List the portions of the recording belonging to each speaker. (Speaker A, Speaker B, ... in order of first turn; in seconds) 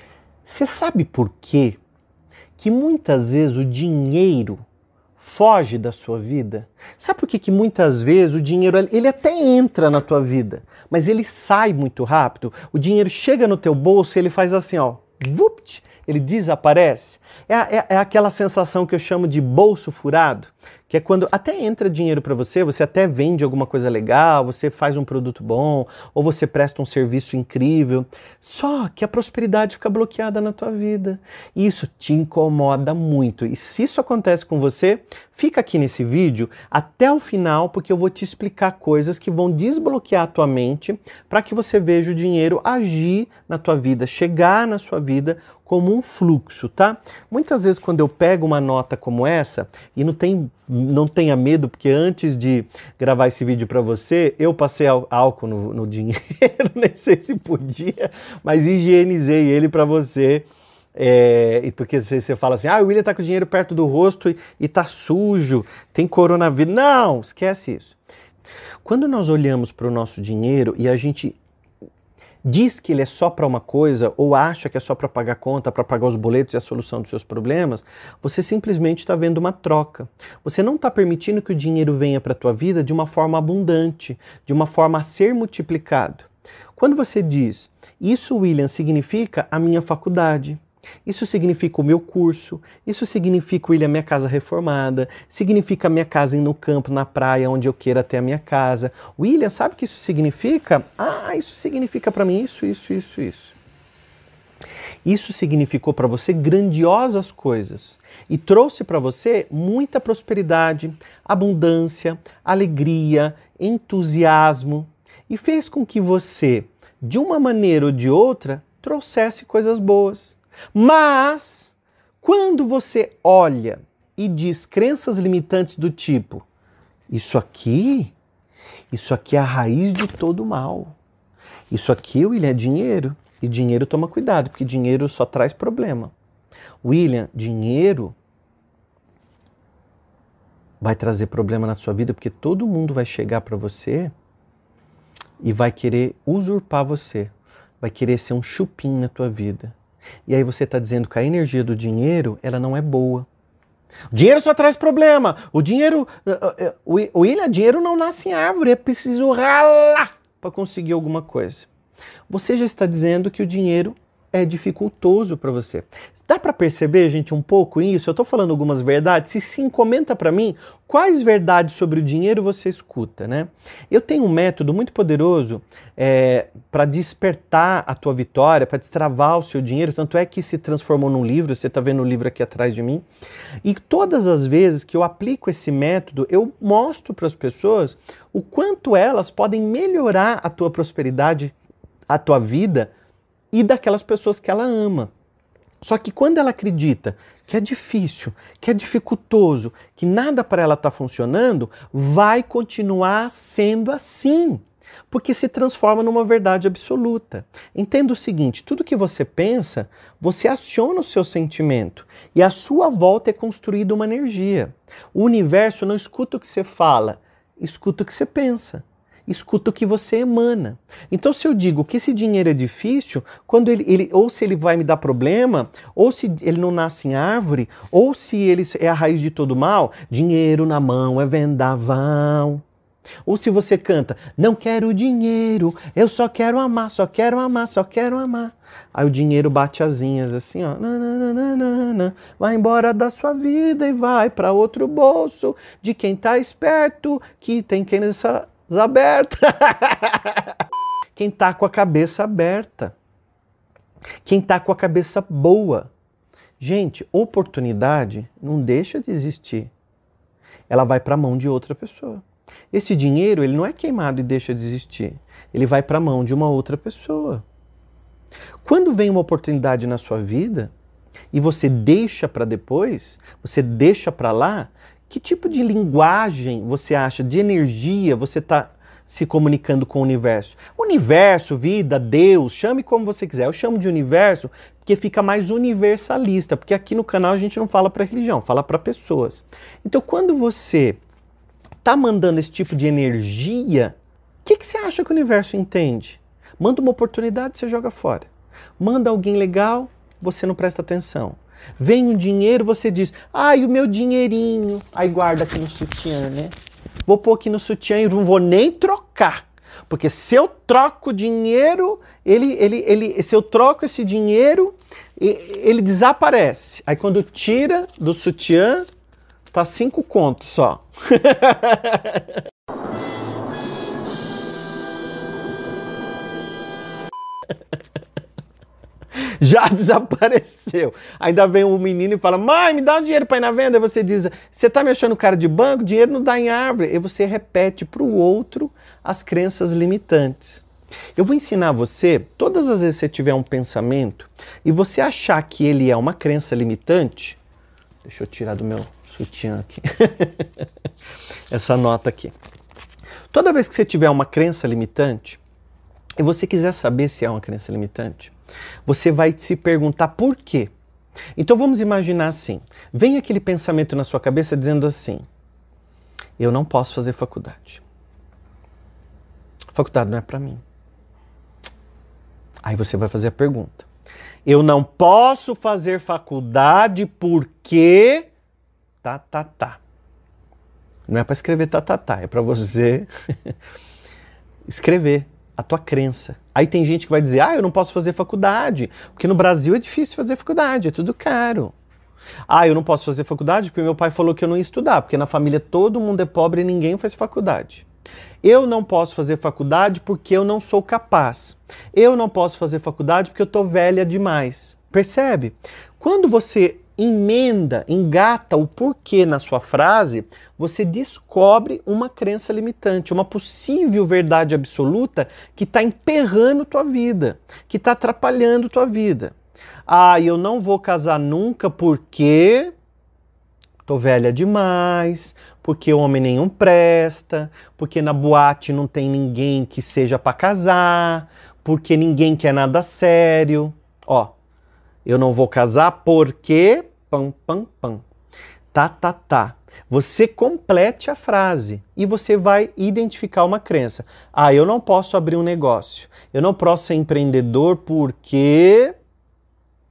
Speaker A: 0.4-1.8, 2.6-4.6, 5.2-68.0, 68.8-71.4, 72.4-103.5, 105.0-126.5, 127.1-128.1, 128.9-130.9, 131.7-136.1, 136.8-138.2, 140.8-144.1, 145.4-149.7, 150.3-153.3, 154.1-161.7, 162.3-183.0, 183.6-191.5, 192.1-192.9, 193.5-195.1, 195.8-232.6, 233.2-250.5, 251.2-252.9, 254.2-255.9, 256.6-259.7, 260.7-267.4, 268.6-270.7, 271.3-291.0, 291.8-306.5, 307.1-318.9, 319.5-322.3, 329.4-340.6, 341.1-347.4, 348.0-350.6, 351.5-352.3, 353.3-355.4, 356.2-358.3, 358.9-360.7, 361.4-365.2, 366.4-367.8, 369.7-370.6, 372.6-373.9, 374.4-378.3, 379.0-379.8, 381.1-383.5, 384.6-391.7, 392.5-397.9, 398.4-419.3, 419.9-422.7, 423.9-434.3, 435.0-438.0, 438.7-448.9